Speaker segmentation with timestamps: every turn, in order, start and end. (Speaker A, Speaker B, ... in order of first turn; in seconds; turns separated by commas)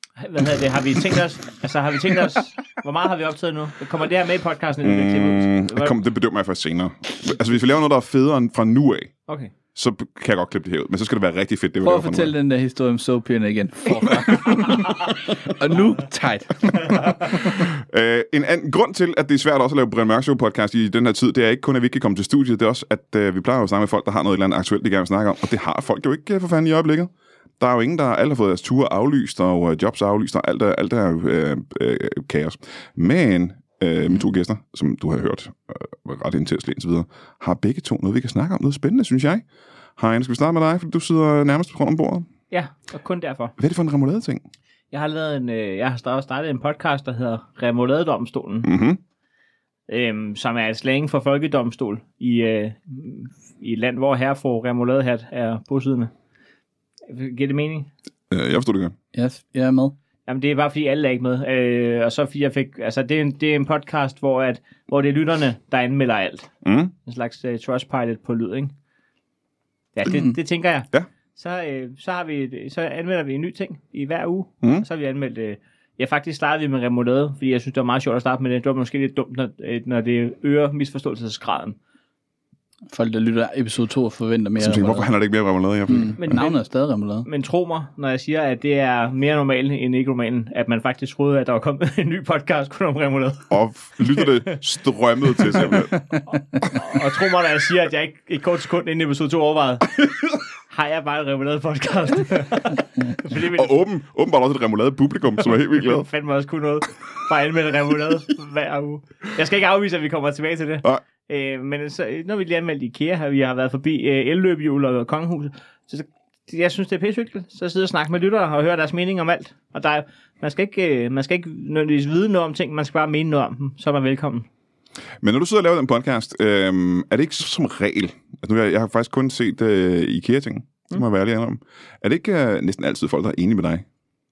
Speaker A: 0.2-5.9, Speaker B: 4.8-9.1, Speaker B: 9.7-12.3, Speaker C: 11.8-17.4, Speaker B: 17.4-39.4, Speaker B: 40.0-42.3, Speaker A: 42.5-43.5, Speaker B: 43.6-44.4, Speaker A: 44.9-48.7, Speaker B: 48.6-49.0, Speaker A: 49.9-56.1, Speaker A: 57.1-57.9, Speaker B: 58.3-58.9, Speaker C: 59.1-59.9, Speaker A: 60.3-66.5, Speaker B: 66.6-66.9, Speaker A: 67.0-68.7, Speaker A: 70.0-81.8, Speaker C: 82.9-85.1, Speaker B: 84.6-86.4, Speaker C: 85.9-87.3, Speaker A: 86.2-86.6, Speaker A: 87.2-93.5, Speaker B: 93.5-96.0, Speaker A: 94.1-94.5, Speaker A: 96.5-103.7, Speaker B: 103.5-106.1, Speaker A: 105.8-124.5, Speaker B: 125.2-133.8